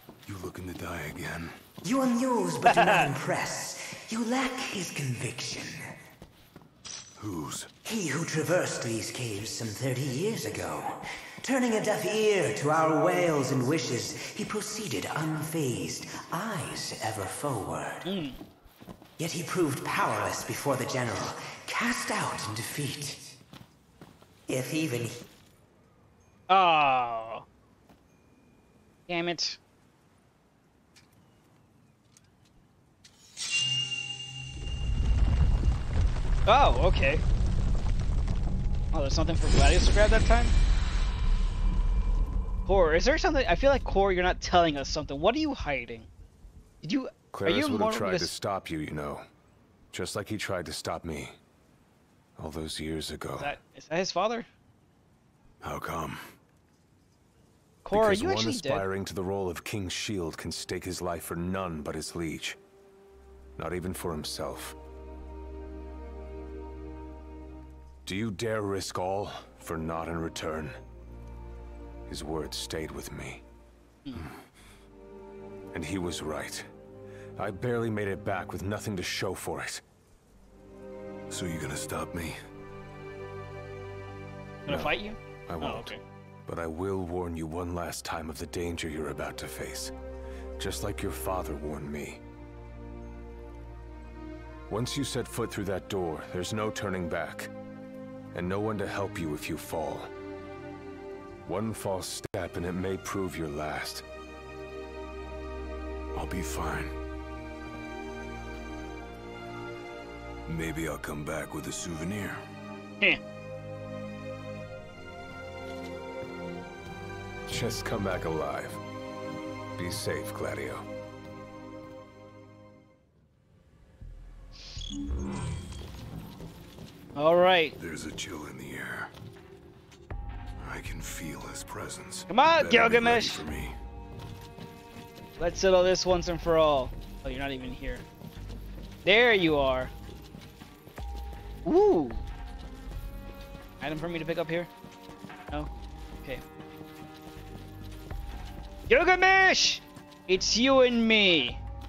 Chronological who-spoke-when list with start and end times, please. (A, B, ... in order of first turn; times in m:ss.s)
0:00.2-0:01.6 A
0:01.8-0:05.8 B
0:02.6-0:03.1 C
0:07.2-0:07.7 A
0:07.8-0:18.0 B
0:18.0-0:18.4 C
0:19.2-0:23.3 B
0:24.5-0:25.2 B
0:26.5-0:27.4 C
0:29.1-0:29.6 C
0:36.4-0:37.2 C
0:38.9-0:40.5 C
0:42.6-0:46.1 C
0:46.8-0:48.3 C
0:47.3-0:49.2 D
0:49.9-0:51.4 D
0:52.4-0:53.5 D
0:53.4-0:54.5 C
0:55.6-0:56.3 A
0:57.8-0:58.8 C
0:57.9-1:02.6 D
1:03.6-1:04.8 D
1:08.0-1:10.8 D
1:12.1-1:13.4 D
1:14.0-1:14.3 C
1:15.7-1:16.6 D
1:17.4-1:19.8 D
1:21.3-1:22.4 A
1:24.6-1:26.0 C
1:24.7-1:29.9 D
1:30.6-1:32.2 D
1:34.7-1:37.5 D
1:38.3-1:40.1 D
1:41.4-1:44.0 D
1:46.1-1:46.9 A
1:50.4-1:52.4 A
1:57.5-1:58.8 D
1:59.8-2:00.8 D
2:07.2-2:07.8 C
2:07.8-2:09.1 A
2:10.6-2:13.7 A
2:12.3-2:13.4 C
2:15.4-2:18.0 C
2:19.0-2:19.9 C
2:21.6-2:22.2 C
2:23.8-2:24.7 C
2:28.9-2:31.6 C